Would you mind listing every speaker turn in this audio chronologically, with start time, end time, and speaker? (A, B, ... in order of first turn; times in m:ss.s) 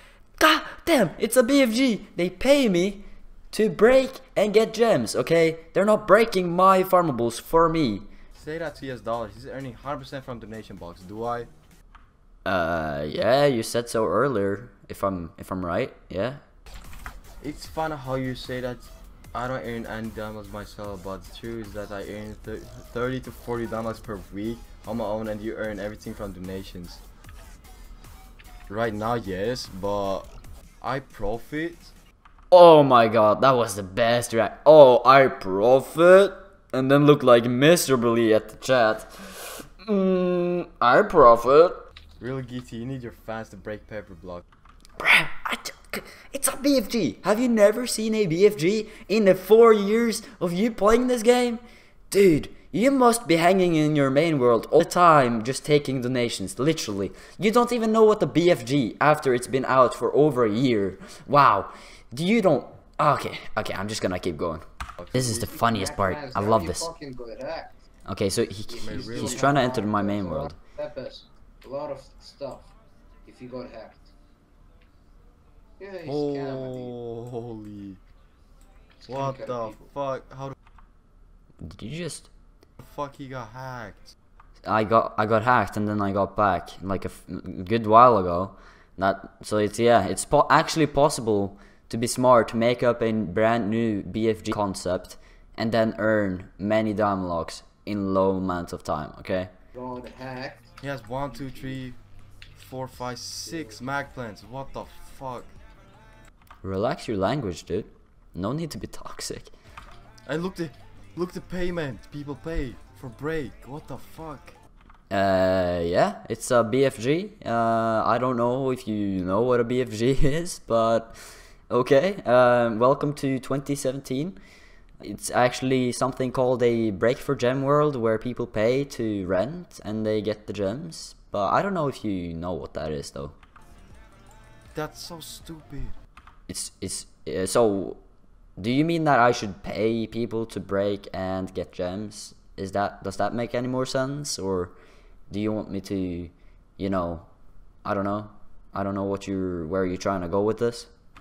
0:00.4-0:08.1 A
0:08.3-0:11.5 B
0:12.4-0:16.4 A
0:17.4-0:27.0 B
0:28.7-0:30.3 B
0:30.8-0:31.9 B
0:32.5-0:41.8 A
0:42.2-0:44.4 B
0:45.0-1:06.9 A
1:05.0-1:05.4 B
1:05.4-1:07.8 C
1:08.1-1:10.5 A
1:08.7-1:12.7 C
1:08.8-1:09.6 B
1:13.2-1:14.1 C
1:15.8-1:16.9 C
1:16.0-1:18.0 B
1:19.0-1:19.8 C
1:19.1-1:20.5 B
1:21.6-1:22.3 A
1:22.8-1:24.1 B
1:24.6-1:39.5 A
1:39.7-1:40.7 C
1:40.8-1:42.0 B
1:41.5-1:41.8 C
1:42.5-1:45.5 B
1:46.6-1:49.5 A
1:50.3-1:54.6 B
1:55.1-2:01.1 A
2:01.7-2:04.4 A
2:05.0-2:13.3 A
2:14.7-2:15.9 B
2:16.5-2:18.0 A
2:18.6-2:24.7 A
2:25.3-2:27.3 A
2:27.8-2:30.9 A